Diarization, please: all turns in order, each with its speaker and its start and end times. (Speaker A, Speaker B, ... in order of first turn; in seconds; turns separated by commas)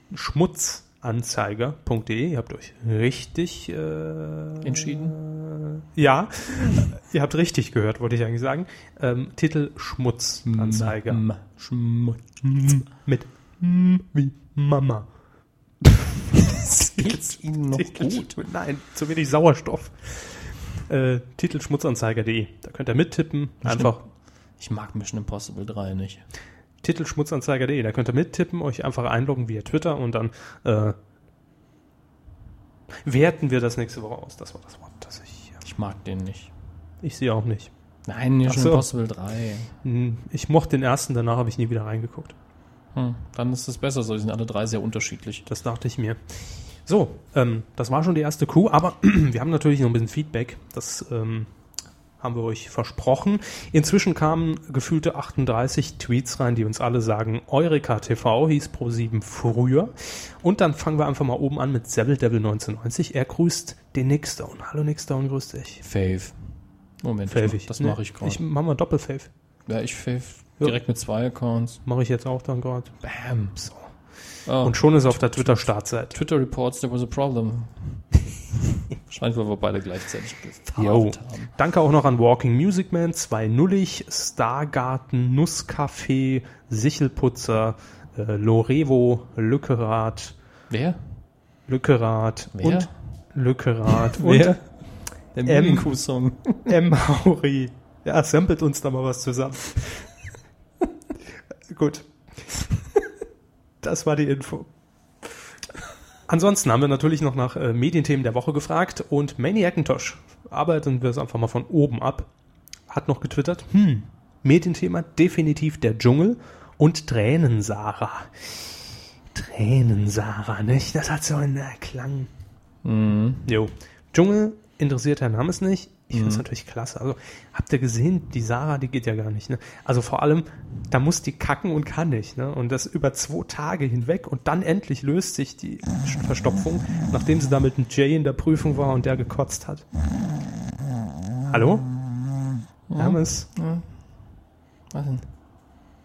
Speaker A: 0.1-11.2, Speaker B: 4.6-5.2, Speaker B: 10.4-12.8, Speaker A: 12.6-15.1, Speaker B: 16.4-18.4, Speaker A: 16.7-24.0, Speaker B: 23.6-24.0, Speaker B: 24.6-26.2, Speaker A: 26.8-30.9, Speaker A: 33.0-35.6, Speaker B: 35.6-36.5, Speaker A: 37.0-37.7, Speaker B: 38.0-39.7, Speaker A: 38.4-38.9, Speaker A: 39.8-42.3, Speaker B: 42.9-45.5, Speaker A: 45.5-46.2, Speaker A: 46.8-51.5, Speaker A: 52.2-65.8, Speaker B: 65.8-66.3, Speaker B: 67.0-68.4, Speaker A: 67.3-69.3, Speaker B: 69.7-71.8, Speaker A: 71.8-73.0, Speaker B: 73.0-73.7, Speaker B: 74.5-78.0, Speaker A: 74.6-76.2, Speaker B: 78.7-81.5, Speaker A: 80.8-90.3, Speaker B: 90.7-91.0, Speaker A: 91.7-94.6, Speaker B: 92.5-92.9, Speaker B: 94.1-94.6, Speaker B: 95.3-96.8, Speaker A: 95.4-95.9, Speaker A: 96.7-100.1, Speaker A: 101.7-102.1, Speaker A: 103.8-104.7, Speaker A: 106.3-112.3, Speaker A: 112.9-118.8, Speaker A: 119.3-122.3, Speaker B: 122.8-123.5, Speaker A: 123.5-139.8, Speaker B: 126.1-126.4, Speaker A: 141.5-141.9, Speaker B: 142.9-143.9, Speaker A: 142.9-143.5, Speaker B: 144.9-145.2